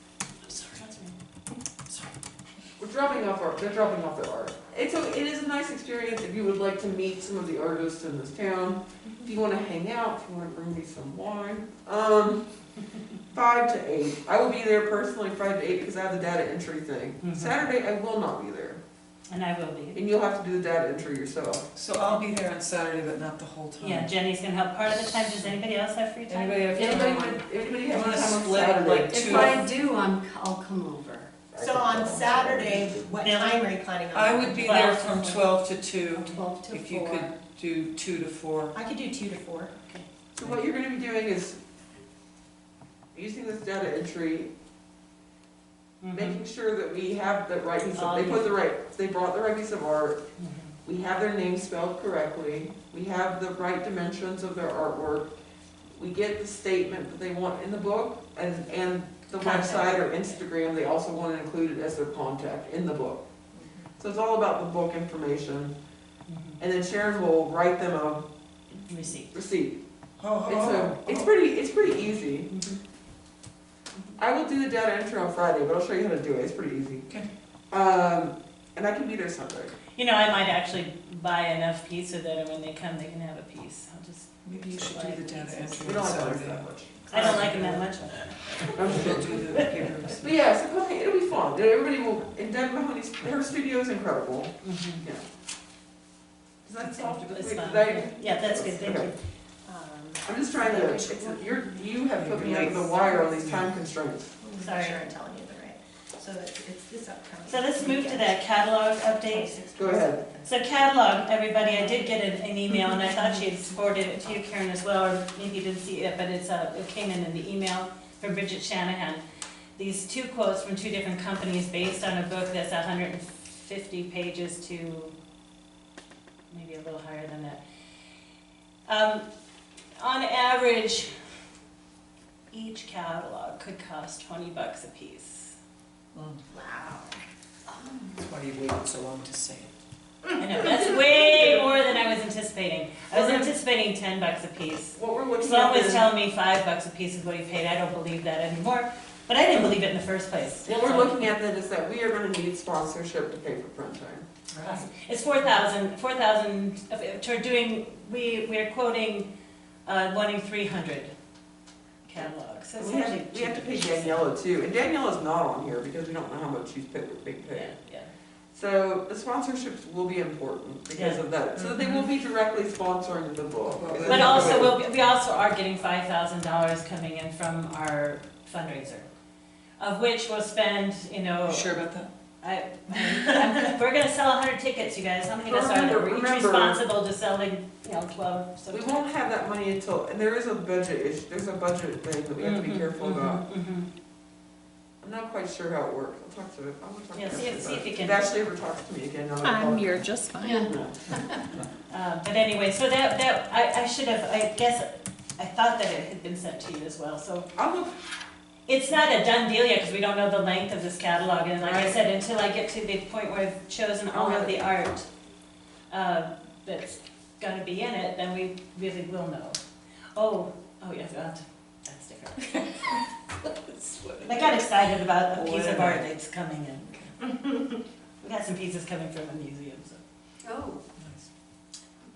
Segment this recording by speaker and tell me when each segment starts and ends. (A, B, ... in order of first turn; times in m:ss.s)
0:00.4-0:01.1 A
0:02.8-0:12.4 B
0:13.3-0:18.8 B
0:17.2-0:17.6 A
0:19.3-0:20.0 A
0:19.9-0:21.7 B
0:21.7-0:24.1 C
0:23.8-0:27.3 A
0:26.3-0:29.6 C
0:26.7-0:29.7 B
0:29.1-0:31.4 D
0:31.5-0:33.1 B
0:31.6-0:34.7 E
0:33.2-0:33.6 A
0:34.1-0:38.8 C
0:34.5-0:35.5 A
0:36.2-0:36.4 A
0:36.2-0:36.8 E
0:36.5-0:37.3 D
0:38.7-0:39.7 E
0:40.3-0:41.6 B
0:43.1-0:44.5 B
0:46.0-0:46.4 A
0:46.1-0:50.2 B
0:47.9-0:48.5 A
0:50.4-0:50.7 A
0:50.8-0:55.3 B
0:56.0-1:03.2 B
0:59.4-1:00.2 A
1:04.0-1:05.7 B
1:06.3-1:06.6 A
1:06.6-1:08.2 B
1:08.9-1:09.3 A
1:09.3-1:09.8 B
1:10.2-1:11.3 C
1:10.4-1:12.5 B
1:12.5-1:12.8 A
1:14.2-1:17.0 B
1:17.7-1:19.7 B
1:20.0-1:26.0 A
1:24.4-1:27.9 C
1:25.8-1:27.5 B
1:27.1-1:30.0 A
1:28.7-1:29.4 B
1:28.8-1:30.3 C
1:30.2-1:35.2 B
1:34.6-1:35.0 A
1:36.6-1:39.1 B
1:36.8-1:39.1 A
1:39.6-1:41.8 E
1:40.2-1:44.4 B
1:42.2-1:43.7 C
1:42.9-1:43.3 E
1:44.4-1:48.4 E
1:44.6-1:45.1 A
1:47.4-1:49.6 A
1:49.3-1:50.5 E
1:49.7-1:50.2 B
1:50.4-1:59.2 A
1:59.8-2:05.1 A
2:06.5-2:07.6 A
2:08.9-2:09.2 A
2:10.0-2:11.1 A
2:12.5-2:15.5 A
2:16.1-2:16.4 C
2:16.5-2:17.2 E
2:18.2-2:19.7 C
2:20.4-2:31.2 A
2:20.6-2:21.7 B
2:23.1-2:23.6 B
2:24.9-2:26.1 B
2:30.6-2:34.2 B
2:34.5-2:34.9 C
2:34.6-2:39.3 A
2:39.8-2:41.1 A
2:42.0-2:44.3 A
2:42.8-2:47.7 B
2:47.5-2:48.1 A
2:48.5-2:54.7 B
2:50.9-2:51.2 A
2:53.6-2:54.8 C
2:54.0-2:59.1 A
2:59.8-3:01.7 A
3:01.4-3:02.1 C
3:02.4-3:09.1 A
3:05.4-3:06.8 B
3:08.7-3:13.4 B
3:12.4-3:13.9 A
3:15.0-3:21.1 B
3:17.1-3:18.2 A
3:19.4-3:20.7 E
3:20.4-3:20.7 D
3:21.9-3:27.5 A
3:27.5-3:27.9 B
3:28.7-3:35.1 A
3:31.6-3:31.9 C
3:34.1-3:34.6 B
3:35.9-3:39.6 A
3:40.1-3:43.0 A
3:43.4-3:44.6 C
3:44.2-3:46.9 A
3:45.3-3:46.0 C
3:46.9-3:47.1 C
3:48.2-3:50.0 A
3:50.4-3:50.8 D
3:51.0-3:51.3 C